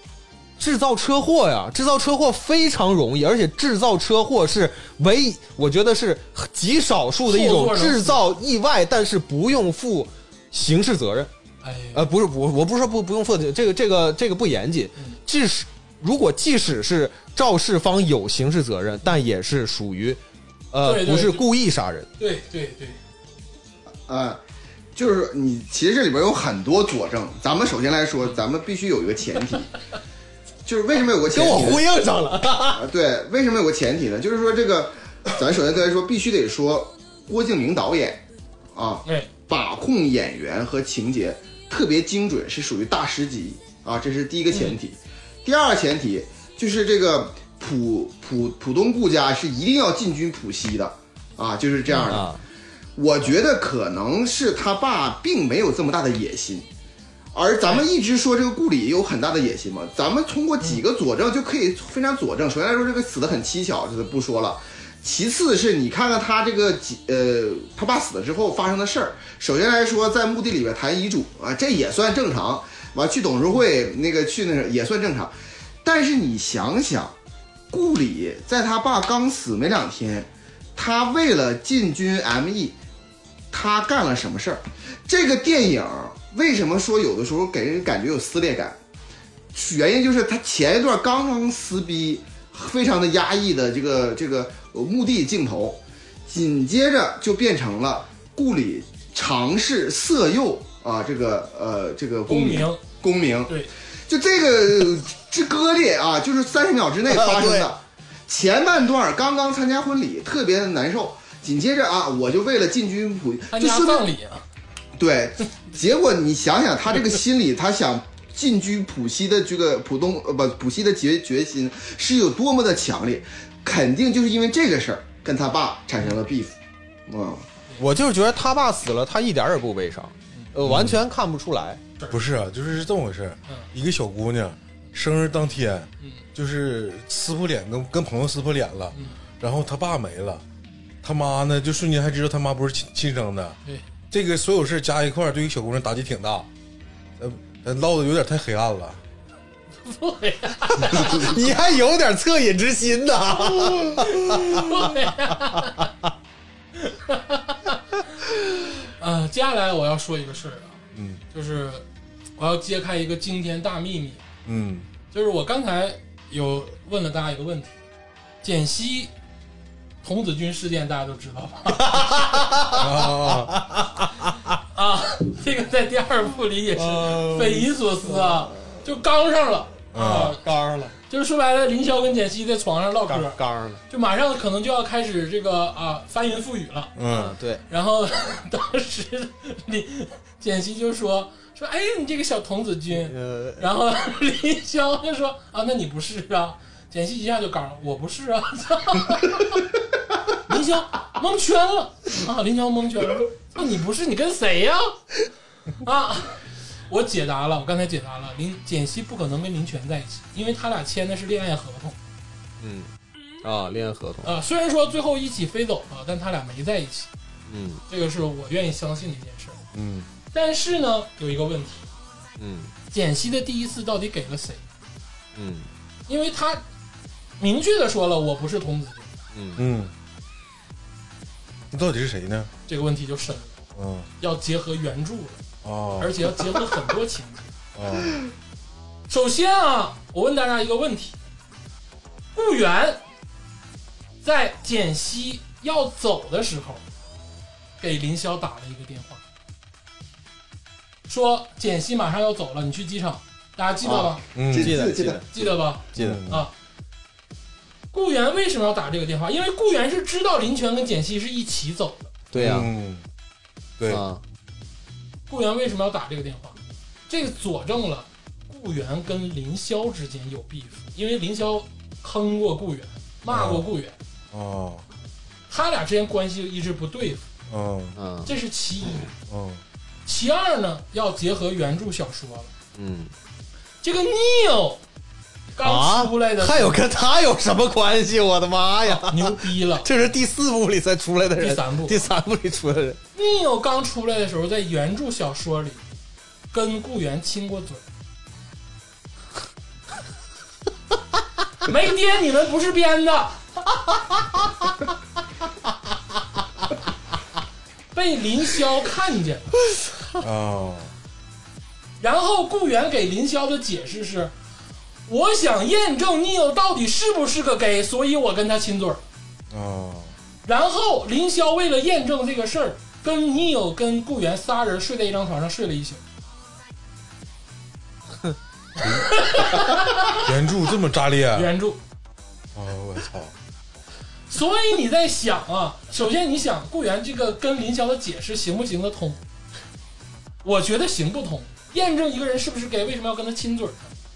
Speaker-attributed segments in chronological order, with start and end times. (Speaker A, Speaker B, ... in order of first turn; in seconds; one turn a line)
Speaker A: 0.6-11.3
Speaker B: 7.2-8.2
Speaker B: 11.6-12.0
Speaker A: 11.9-20.2
Speaker A: 20.7-22.1
Speaker B: 20.8-21.4
Speaker B: 22.2-23.0
Speaker C: 24.1-24.4
Speaker C: 24.9-29.7
Speaker C: 30.6-31.9
Speaker A: 31.3-32.9
Speaker C: 32.7-38.2
Speaker C: 38.7-52.3
Speaker B: 44.5-44.8
Speaker B: 51.9-52.1
Speaker A: 52.1-52.4
Speaker C: 53.0-56.7
Speaker C: 57.3-75.3
Speaker C: 75.8-77.1
Speaker C: 77.7-82.8
Speaker C: 83.5-88.8
Speaker C: 89.5-114.1
Speaker B: 102.3-102.8
Speaker A: 107.1-107.7
Speaker B: 113.5-114.4
Speaker C: 115.0-126.5
Speaker C: 127.1-127.4
Speaker A: 127.8-131.8
Speaker D: 130.6-131.0
Speaker D: 132.1-140.4
Speaker D: 141.0-143.6
Speaker D: 144.1-146.5
Speaker D: 147.2-149.0
Speaker B: 149.8-151.4
Speaker A: 150.8-154.9
Speaker B: 153.5-155.9
Speaker B: 156.8-157.8
Speaker B: 159.0-160.8
Speaker D: 160.9-161.2
Speaker B: 161.3-161.8
Speaker B: 162.4-164.2
Speaker D: 164.4-164.9
Speaker B: 165.1-167.8
Speaker B: 168.4-169.1
Speaker B: 170.0-172.8
Speaker A: 171.9-174.3
Speaker D: 172.7-173.6
Speaker B: 174.7-180.4
Speaker A: 176.7-178.5
Speaker D: 179.9-180.3
Speaker A: 180.0-180.9
Speaker B: 181.1-186.9
Speaker A: 183.1-183.8
Speaker D: 186.9-187.3
Speaker A: 187.1-187.6
Speaker B: 187.7-199.7
Speaker A: 192.9-193.6
Speaker B: 200.3-205.0
Speaker B: 205.8-212.0
Speaker A: 212.6-212.9
Speaker A: 213.4-214.3
Speaker B: 214.2-217.1
Speaker A: 217.5-217.8
Speaker B: 217.9-219.6
Speaker D: 219.7-220.1
Speaker B: 220.3-221.9
Speaker A: 222.4-222.7
Speaker B: 222.9-224.6
Speaker A: 225.3-225.7
Speaker B: 226.1-226.6
Speaker B: 227.4-229.1
Speaker A: 229.3-229.6
Speaker D: 229.6-229.9
Speaker D: 231.7-232.5
Speaker B: 232.7-233.5
Speaker D: 233.8-234.1
Speaker B: 234.2-235.4
Speaker D: 235.6-236.4
Speaker B: 236.0-237.5
Speaker D: 237.7-238.2
Speaker B: 239.1-241.2
Speaker B: 242.3-243.0
Speaker B: 244.2-246.8
Speaker B: 247.8-249.2
Speaker B: 251.1-254.2
Speaker A: 253.8-255.3
Speaker D: 254.3-254.8
Speaker C: 254.5-255.5
Speaker B: 255.3-256.5
Speaker A: 255.9-256.2
Speaker D: 255.9-256.4
Speaker B: 257.9-262.1
Speaker A: 262.3-262.7
Speaker D: 262.3-263.0
Speaker D: 263.8-264.0
Speaker A: 263.9-264.2
Speaker B: 265.3-266.6
Speaker B: 267.1-273.9
Speaker D: 273.3-273.6
Speaker D: 274.3-274.8
Speaker B: 275.5-277.3
Speaker D: 277.5-278.0
Speaker A: 278.0-278.3
Speaker B: 278.2-279.1
Speaker D: 279.3-279.6
Speaker B: 280.1-282.5
Speaker A: 282.7-283.1
Speaker B: 283.8-284.8
Speaker B: 285.5-286.8
Speaker A: 285.6-293.0
Speaker B: 288.8-289.9
Speaker B: 291.4-292.1
Speaker B: 293.1-295.8
Speaker B: 296.5-297.8
Speaker B: 301.6-303.4
Speaker B: 307.9-309.5
Speaker D: 310.2-310.9
Speaker B: 312.0-314.3
Speaker B: 315.1-319.0
Speaker D: 319.5-320.1
Speaker B: 320.4-326.0
Speaker B: 328.9-330.2
Speaker D: 329.7-331.5
Speaker B: 331.3-331.8
Speaker D: 332.5-333.3
Speaker B: 334.3-339.2
Speaker B: 340.4-343.9